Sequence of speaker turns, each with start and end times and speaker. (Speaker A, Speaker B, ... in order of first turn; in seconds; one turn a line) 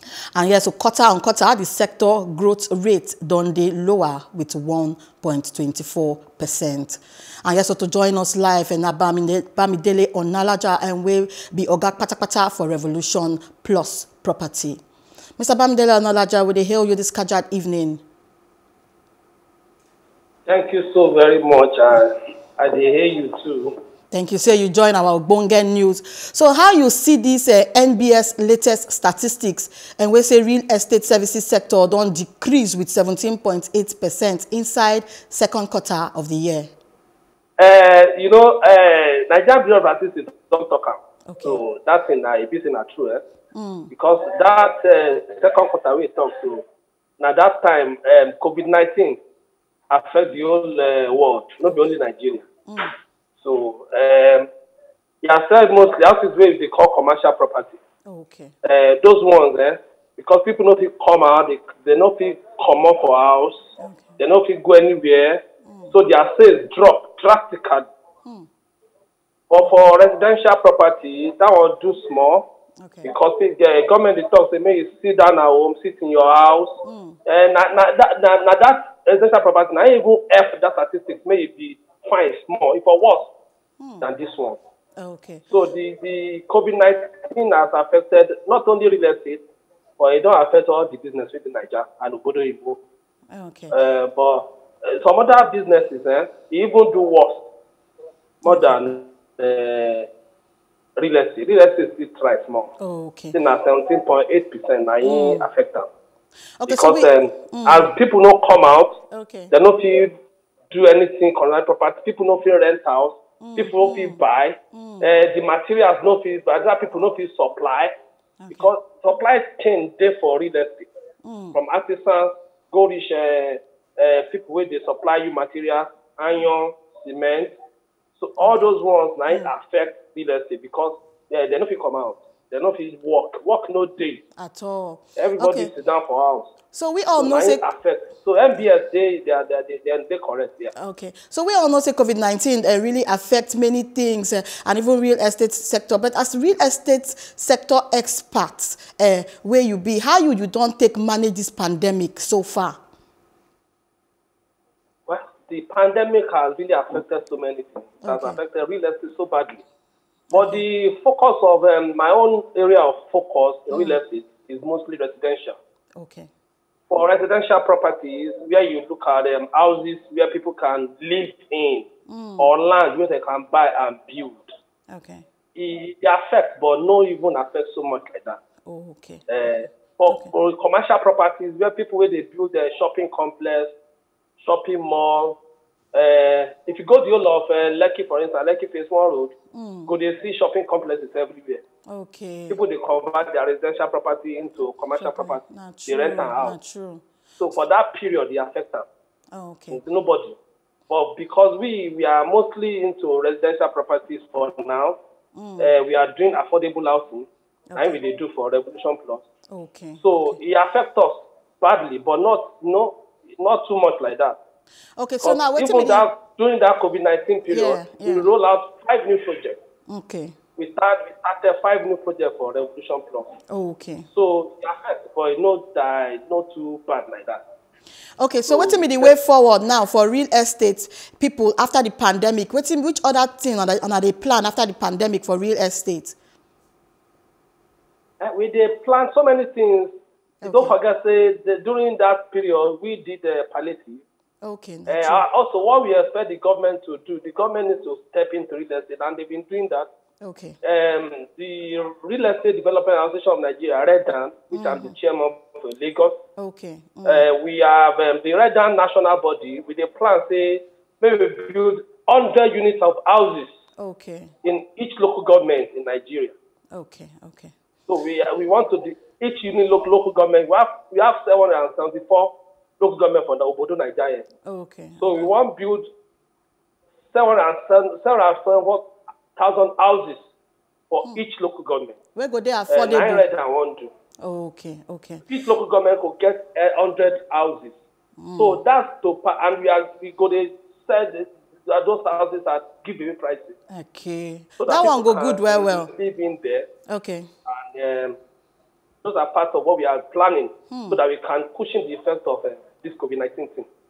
Speaker A: 0.3-14.8
Speaker A: 15.4-18.0
Speaker B: 20.5-23.7
Speaker A: 24.1-36.7
Speaker B: 37.6-43.2
Speaker A: 41.3-41.6
Speaker A: 43.5-43.9
Speaker B: 43.9-46.6
Speaker B: 47.2-49.2
Speaker B: 49.9-52.4
Speaker A: 51.6-51.9
Speaker A: 52.7-52.9
Speaker B: 53.4-54.5
Speaker B: 55.2-57.8
Speaker A: 58.1-58.5
Speaker B: 58.6-63.6
Speaker A: 63.8-64.2
Speaker B: 64.2-67.9
Speaker A: 65.7-65.9
Speaker B: 69.5-72.5
Speaker A: 72.8-73.1
Speaker B: 73.0-76.7
Speaker A: 76.8-77.2
Speaker B: 77.2-83.3
Speaker A: 83.8-84.1
Speaker B: 84.0-84.6
Speaker A: 85.0-85.5
Speaker B: 85.5-89.4
Speaker B: 90.0-92.8
Speaker A: 93.3-93.8
Speaker B: 93.7-97.4
Speaker B: 98.4-100.1
Speaker A: 98.4-98.9
Speaker B: 101.0-102.7
Speaker A: 102.8-103.3
Speaker B: 103.3-105.9
Speaker A: 105.0-105.4
Speaker A: 106.6-107.9
Speaker B: 106.7-109.0
Speaker A: 109.1-109.5
Speaker B: 109.5-110.1
Speaker B: 110.7-117.9
Speaker A: 113.4-114.2
Speaker A: 114.7-115.1
Speaker A: 118.4-118.7
Speaker B: 118.5-120.9
Speaker A: 121.2-121.6
Speaker B: 121.5-127.5
Speaker B: 128.2-134.2
Speaker A: 128.4-128.7
Speaker A: 134.4-135.7
Speaker B: 135.2-136.5
Speaker A: 136.7-137.6
Speaker B: 137.2-140.7
Speaker A: 140.7-152.8
Speaker B: 155.1-159.6
Speaker A: 158.0-158.4
Speaker A: 160.3-160.6
Speaker B: 160.3-165.6
Speaker A: 163.7-164.0
Speaker A: 165.9-166.3
Speaker B: 166.9-171.9
Speaker A: 172.1-172.5
Speaker B: 172.4-174.5
Speaker A: 174.9-175.2
Speaker B: 175.5-178.4
Speaker A: 178.7-180.3
Speaker B: 179.3-183.7
Speaker B: 184.4-185.4
Speaker B: 185.9-189.3
Speaker A: 189.5-189.9
Speaker B: 189.9-191.6
Speaker A: 191.9-192.6
Speaker B: 192.5-196.5
Speaker A: 195.0-197.0
Speaker B: 197.4-198.8
Speaker A: 199.3-199.8
Speaker B: 199.7-200.4
Speaker B: 200.9-205.0
Speaker A: 205.3-205.7
Speaker B: 205.6-209.2
Speaker A: 207.7-208.0
Speaker A: 209.5-210.4
Speaker B: 210.0-214.4
Speaker A: 215.0-216.0
Speaker B: 215.2-219.6
Speaker A: 217.5-218.3
Speaker A: 219.9-220.3
Speaker B: 220.6-223.3
Speaker A: 223.5-224.1
Speaker B: 224.1-227.4
Speaker A: 228.2-236.1
Speaker B: 228.5-229.2
Speaker B: 238.2-239.9
Speaker A: 240.4-240.7
Speaker B: 240.4-244.0
Speaker A: 244.4-245.2
Speaker B: 244.9-249.9
Speaker A: 250.2-250.6
Speaker B: 250.6-256.2
Speaker A: 254.5-254.9
Speaker A: 256.4-257.3
Speaker B: 257.1-263.5
Speaker A: 263.8-264.3
Speaker B: 264.4-266.3
Speaker A: 266.7-267.5
Speaker B: 267.9-274.2
Speaker A: 274.4-275.3
Speaker B: 275.0-275.9
Speaker B: 277.1-280.2
Speaker B: 280.9-281.9
Speaker A: 282.1-283.3
Speaker B: 282.7-283.9
Speaker A: 284.2-285.2
Speaker B: 285.3-287.7
Speaker A: 288.2-288.6
Speaker B: 288.4-293.6
Speaker A: 293.7-295.9
Speaker B: 294.6-296.7
Speaker A: 296.9-297.3
Speaker B: 297.5-298.2
Speaker B: 299.0-303.7
Speaker A: 300.7-301.0